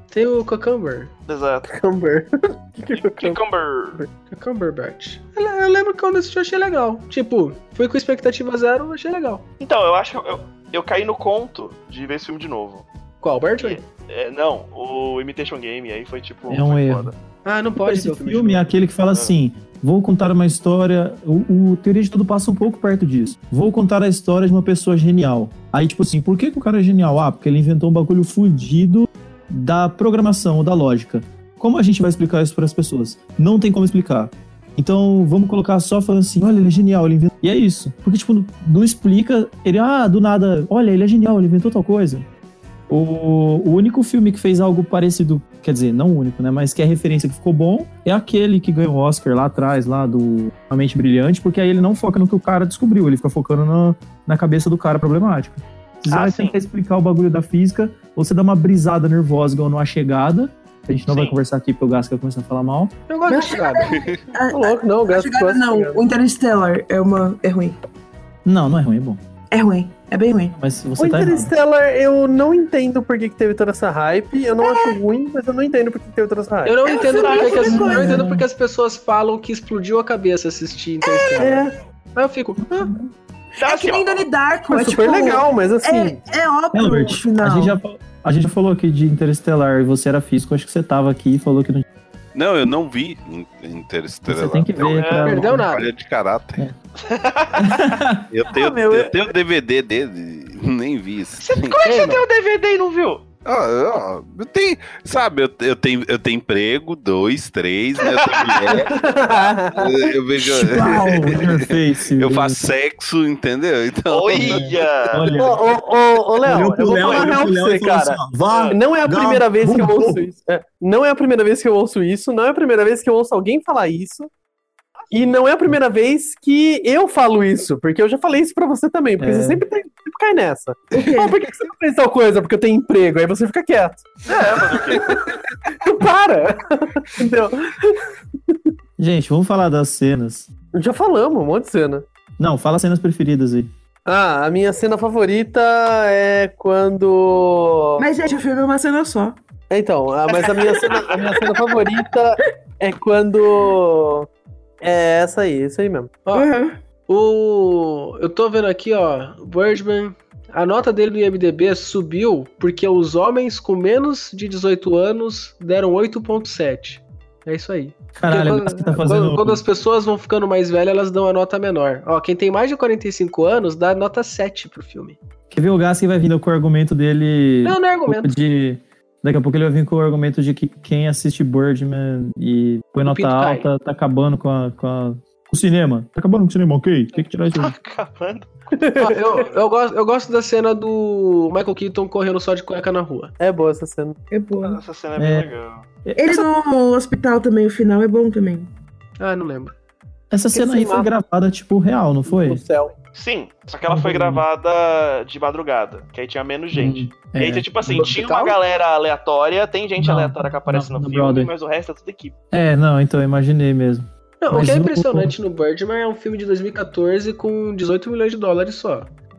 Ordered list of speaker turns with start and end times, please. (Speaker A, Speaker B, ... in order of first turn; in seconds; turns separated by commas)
Speaker A: 0.1-1.1, Speaker B: 1.3-1.7, Speaker C: 1.7-3.4, Speaker B: 2.9-4.0, Speaker A: 4.3-9.4, Speaker B: 9.6-12.8, Speaker A: 13.2-13.8, Speaker B: 13.6-17.1, Speaker D: 16.5-17.1, Speaker A: 17.4-18.7, Speaker D: 17.8-42.2, Speaker D: 42.9-62.9, Speaker B: 56.1-56.5, Speaker B: 61.1-61.4, Speaker A: 63.1-64.0, Speaker E: 63.3-67.8, Speaker F: 63.9-64.2, Speaker C: 64.5-66.0, Speaker D: 68.4-69.2, Speaker E: 69.5-70.6, Speaker D: 70.6-71.5, Speaker C: 71.0-76.8, Speaker A: 76.6-82.9, Speaker B: 76.9-78.0, Speaker E: 76.9-78.2, Speaker D: 77.6-78.5, Speaker C: 81.4-81.7, Speaker D: 82.7-83.1, Speaker E: 83.6-87.8, Speaker B: 83.6-84.2, Speaker C: 84.7-86.2, Speaker D: 86.7-91.8, Speaker F: 92.3-96.6, Speaker D: 94.3-95.7, Speaker B: 94.8-95.4, Speaker A: 95.2-95.9, Speaker B: 97.0-97.8, Speaker D: 97.6-98.2, Speaker F: 98.3-101.8, Speaker C: 98.5-99.1, Speaker B: 101.4-103.2, Speaker A: 101.8-102.2, Speaker F: 103.4-109.0, Speaker B: 108.0-108.9, Speaker C: 108.9-110.0, Speaker F: 109.7-114.7, Speaker D: 110.4-112.6, Speaker B: 114.1-115.4, Speaker D: 114.3-115.6, Speaker C: 115.4-124.3, Speaker D: 116.4-120.3, Speaker B: 118.5-118.8, Speaker C: 125.1-138.7, Speaker D: 129.2-129.6, Speaker E: 130.9-131.4, Speaker B: 134.2-135.2, Speaker D: 139.0-140.5, Speaker C: 140.7-142.0, Speaker D: 142.4-143.7, Speaker C: 144.1-148.1, Speaker E: 148.0-149.4, Speaker C: 149.7-154.3, Speaker C: 154.8-156.1, Speaker E: 156.3-156.8, Speaker A: 157.1-175.2, Speaker D: 168.1-169.6, Speaker D: 175.5-187.7, Speaker A: 177.6-178.3, Speaker A: 183.0-183.7, Speaker B: 187.2-188.5, Speaker C: 188.7-189.2, Speaker A: 189.0-193.3, Speaker C: 193.4-194.2, Speaker E: 194.3-194.8, Speaker B: 194.6-195.8, Speaker D: 195.2-195.5, Speaker D: 196.0-196.4, Speaker E: 196.2-198.7, Speaker A: 199.2-199.7, Speaker D: 200.3-202.6, Speaker C: 200.5-201.1, Speaker C: 202.2-202.9, Speaker B: 203.1-212.3, Speaker D: 203.9-204.4, Speaker D: 206.7-208.2, Speaker C: 208.0-208.5, Speaker D: 210.0-211.5, Speaker D: 212.5-215.3, Speaker A: 214.4-219.1